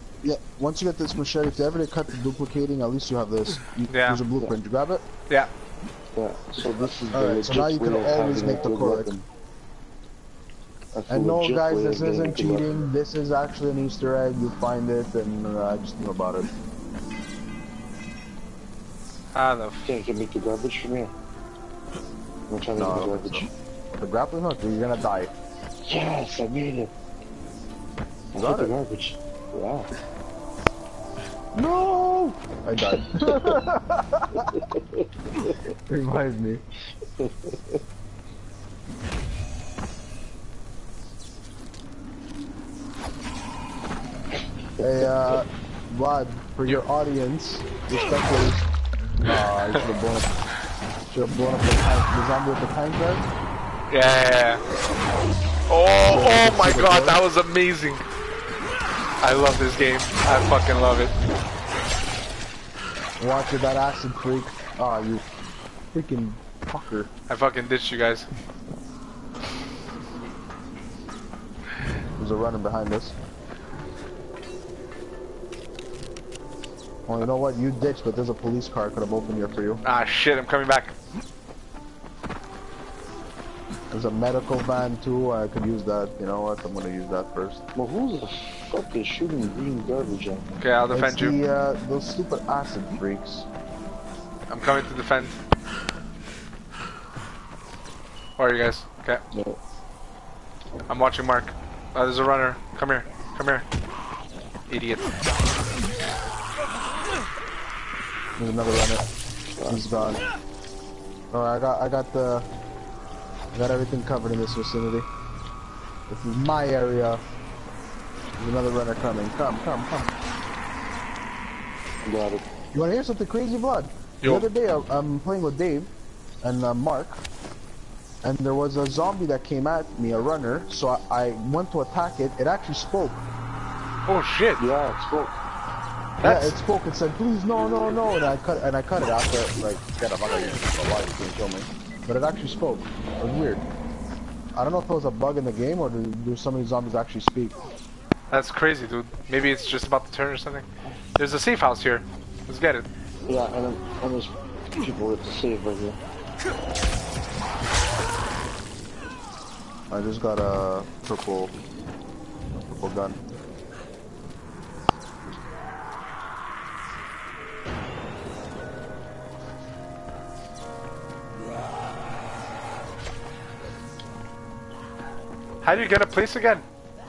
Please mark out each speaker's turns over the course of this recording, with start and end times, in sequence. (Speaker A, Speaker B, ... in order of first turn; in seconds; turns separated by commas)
Speaker A: 0.2-5.0, Speaker B: 3.9-4.2, Speaker C: 6.1-9.2, Speaker A: 7.1-9.1, Speaker C: 10.9-12.8, Speaker A: 11.1-16.5, Speaker B: 19.4-19.9, Speaker C: 19.9-21.1, Speaker C: 22.5-23.5, Speaker A: 22.8-25.3, Speaker C: 25.9-26.9, Speaker C: 28.3-29.9, Speaker A: 28.4-28.7, Speaker A: 31.5-34.6, Speaker C: 32.9-33.6, Speaker C: 34.6-35.6, Speaker A: 35.9-36.6, Speaker C: 37.2-37.8, Speaker A: 44.8-48.7, Speaker A: 49.2-50.3, Speaker A: 51.1-53.2, Speaker B: 53.9-54.6, Speaker B: 55.7-58.0, Speaker A: 56.1-57.2, Speaker B: 59.2-61.1, Speaker A: 63.2-65.3, Speaker A: 65.9-67.1, Speaker B: 67.3-68.3, Speaker A: 72.2-73.2, Speaker A: 77.1-79.8, Speaker B: 79.8-80.9, Speaker A: 83.9-87.6, Speaker C: 87.8-90.7, Speaker B: 90.6-91.4, Speaker A: 90.9-93.5, Speaker B: 94.5-95.4, Speaker B: 98.4-99.2, Speaker C: 99.3-99.6, Speaker B: 100.9-103.7, Speaker B: 104.7-105.3, Speaker A: 108.4-109.1, Speaker C: 109.6-110.1, Speaker A: 109.7-110.2, Speaker A: 111.3-112.5, Speaker A: 113.5-115.1, Speaker A: 116.1-117.2, Speaker A: 118.4-120.1, Speaker C: 122.0-122.4, Speaker A: 122.7-125.9, Speaker A: 126.4-127.2, Speaker A: 128.2-133.2, Speaker B: 134.1-134.6, Speaker C: 134.6-135.4, Speaker B: 136.2-136.6, Speaker A: 136.2-143.6, Speaker A: 144.6-147.6, Speaker B: 148.3-152.9, Speaker C: 153.3-156.0, Speaker A: 159.9-161.6, Speaker A: 162.5-163.2, Speaker B: 175.6-176.7